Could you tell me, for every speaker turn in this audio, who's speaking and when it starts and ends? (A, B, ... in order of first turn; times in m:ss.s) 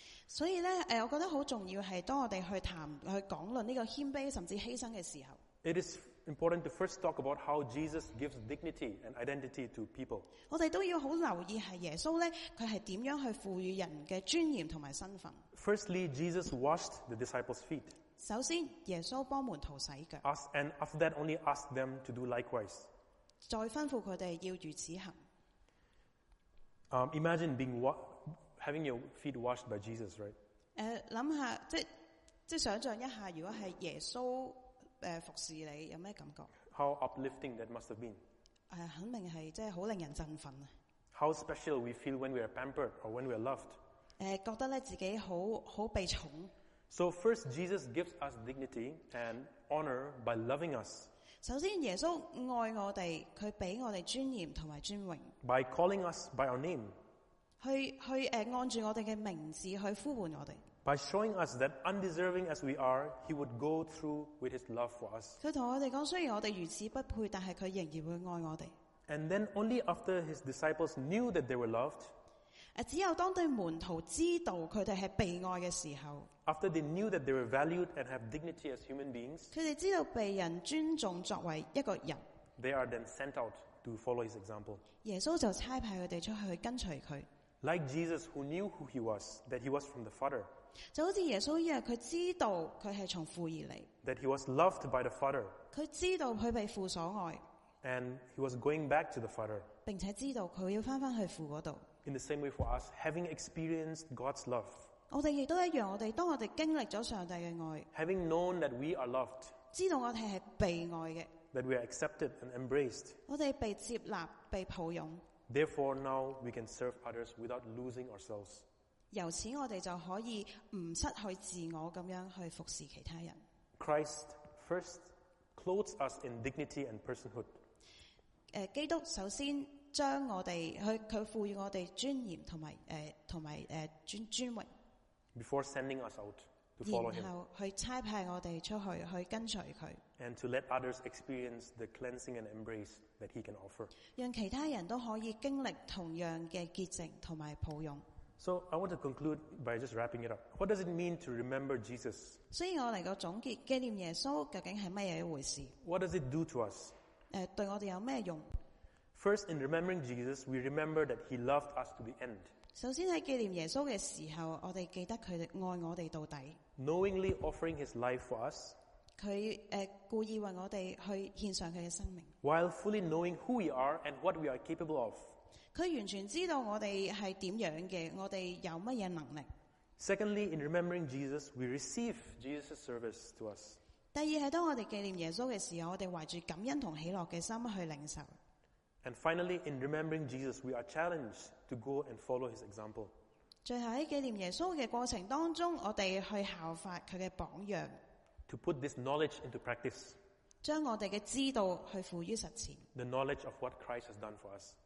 0:00.3-0:05.4 A
0:05.6-0:10.3 B
0:10.5-0:15.4 A
0:15.5-0:18.0 B
0:18.2-0:20.2 A
0:20.2-0:22.9 B
0:23.4-0:25.2 A
0:26.9-0:30.4 B
0:30.8-0:31.9 A
0:32.5-0:36.5 A
0:36.7-0:38.2 B
0:38.7-0:40.7 A
0:41.1-0:43.8 B
0:44.2-0:46.5 A
0:46.9-0:51.1 B
0:51.4-0:55.4 A
0:55.4-0:57.0 B
0:57.6-1:00.6 A
1:00.8-1:05.4 B
1:05.4-1:08.7 A
1:09.1-1:12.1 B
1:12.8-1:16.3 A
1:16.5-1:19.5 B
1:19.5-1:22.2 A
1:22.6-1:24.8 B
1:25.0-1:27.3 A
1:27.6-1:30.5 B
1:30.9-1:33.9 A
1:34.0-1:35.6 B
1:35.7-1:37.4 A
1:37.8-1:39.7 B
1:39.9-1:41.9 A
1:42.0-1:44.9 B
1:45.1-1:47.9 A
1:47.9-1:49.6 B
1:49.7-1:51.4 A
1:51.5-1:53.2 B
1:53.3-1:55.2 A
1:55.5-1:58.6 B
1:59.1-2:03.4 A
2:03.8-2:07.6 B
2:08.5-2:14.7 A
2:15.4-2:17.3 B
2:16.8-2:20.0 A
2:20.2-2:23.9 B
2:24.1-2:28.0 A
2:28.4-2:32.4 B
2:32.5-2:35.8 A
2:35.8-2:37.0 B
2:37.3-2:38.5 A
2:39.1-2:42.5 B
2:42.8-2:46.6 A
2:46.8-2:48.8 B
2:49.2-2:52.3 A
2:52.4-2:55.4 B
2:55.7-2:59.5 A
3:00.0-3:03.8 B
3:04.1-3:08.3 A
3:09.0-3:13.1 B
3:13.6-3:18.0 A
3:18.5-3:20.2 B
3:20.6-3:22.9 A
3:23.0-3:24.8 B